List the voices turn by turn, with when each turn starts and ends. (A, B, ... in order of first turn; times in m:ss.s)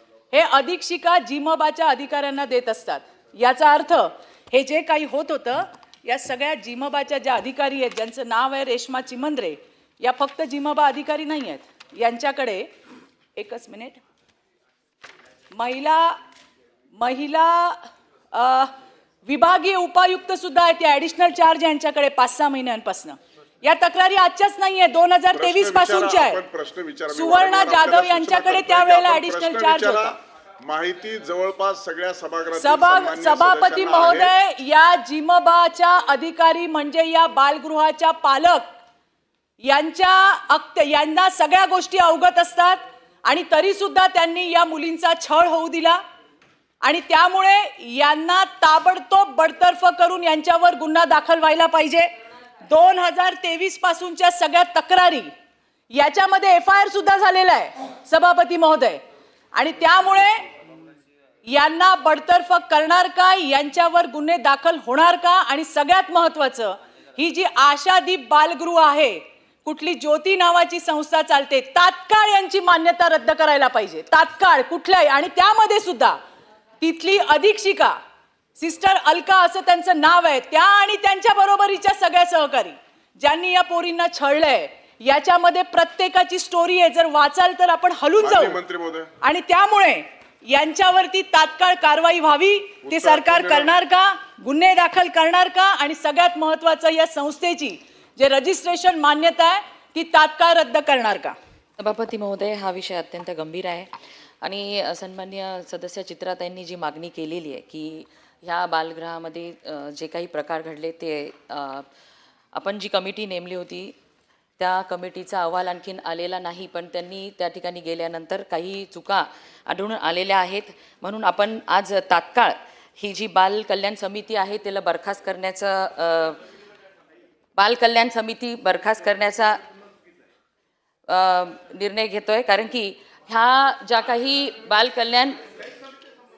0:00.3-0:12.7 A
0:13.4-0:14.0 A
0:15.5-0:16.2 A
0:17.0-0:18.7 A
0:19.2-0:26.4 A
0:25.3-0:34.3 B
0:27.1-0:30.1 A
0:32.6-0:38.7 A
0:39.6-0:46.0 A
0:46.8-0:52.1 A
0:52.6-0:55.3 A
0:55.9-0:59.0 A
0:59.6-1:00.4 A
1:01.5-1:16.2 A
1:16.8-1:18.0 A
1:18.6-1:28.6 A
1:28.2-1:29.1 B
1:29.2-1:41.4 A
1:32.8-1:33.7 B
1:41.8-1:43.9 C
1:44.4-1:51.8 C
1:52.6-1:53.9 C
1:54.6-2:06.4 C
2:07.6-2:09.6 C
2:11.1-2:15.4 C